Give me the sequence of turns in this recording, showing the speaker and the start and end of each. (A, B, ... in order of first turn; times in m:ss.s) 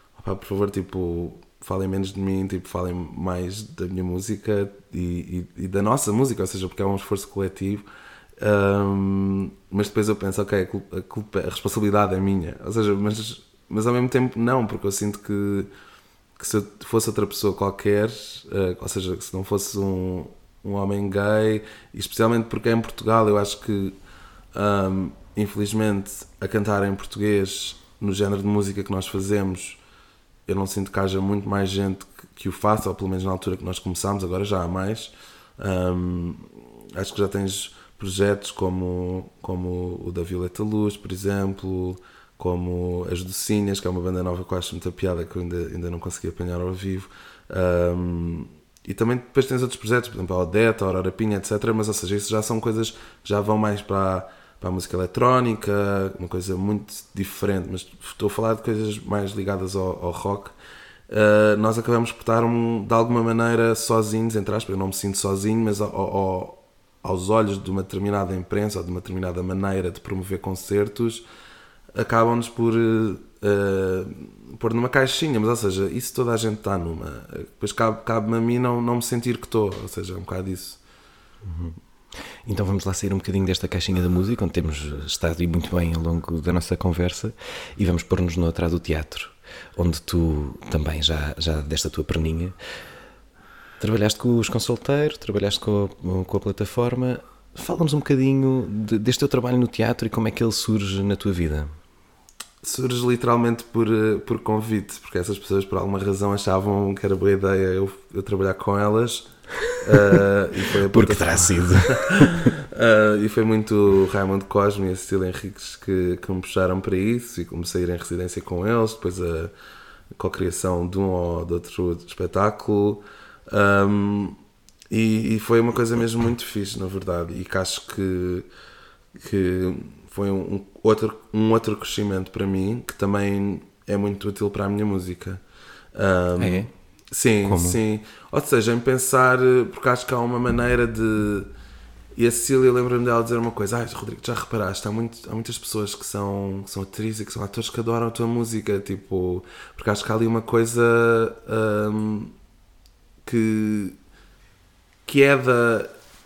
0:00.2-0:07.9 A
0:08.4-0:15.7 A
0:16.4-0:24.0 A
0:24.5-0:29.8 A
0:30.5-1:00.6 A
1:01.1-1:11.2 A
1:12.0-1:20.8 A
1:21.4-1:32.6 B
1:33.8-1:41.7 B
1:42.6-1:59.5 A
1:50.9-1:52.5 B
2:00.2-2:04.4 A
2:04.9-2:08.5 A
2:09.1-2:15.4 A
2:16.0-2:21.5 A
2:16.4-2:16.7 B
2:17.4-2:17.8 B
2:22.2-2:32.3 A
2:33.2-2:34.0 A
2:35.1-2:35.9 A